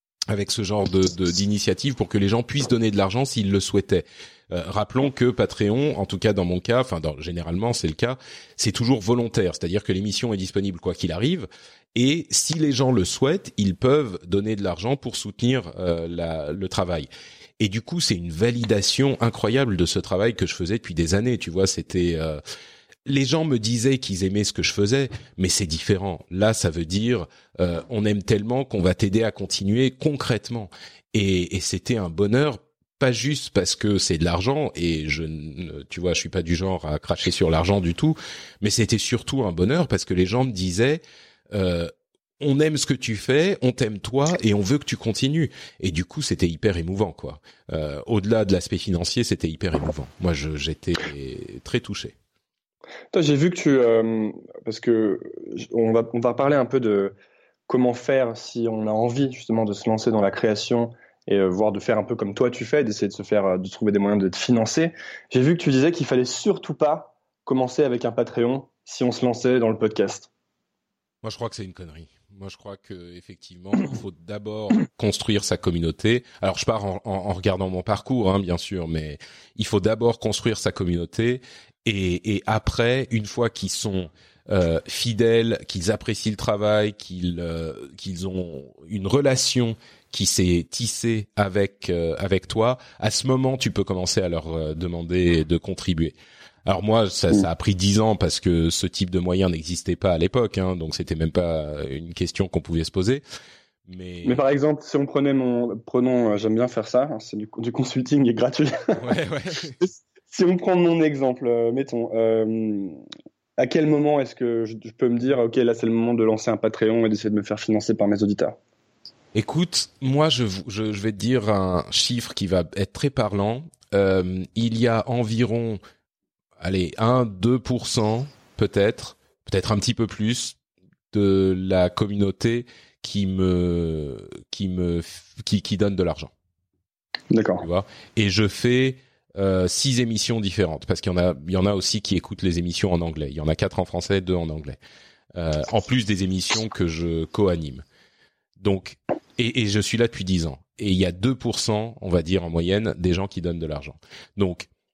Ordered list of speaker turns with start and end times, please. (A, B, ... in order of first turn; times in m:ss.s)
0:00.3-0:17.1 A
0:17.6-0:22.4 A
0:23.0-0:41.0 A
0:41.5-0:52.1 A
0:53.1-0:57.1 B
0:57.7-1:10.3 B
1:11.2-1:36.1 A
1:36.6-1:43.2 A
1:43.8-1:44.4 A
1:44.2-1:49.0 B
1:48.9-1:49.8 A
1:49.8-1:53.0 B
1:53.6-1:58.6 B
1:59.3-2:05.8 A
2:06.6-2:10.6 A
2:11.1-2:16.3 A
2:17.3-2:17.6 B
2:17.6-2:24.8 A
2:25.4-2:27.8 A
2:28.6-2:34.7 A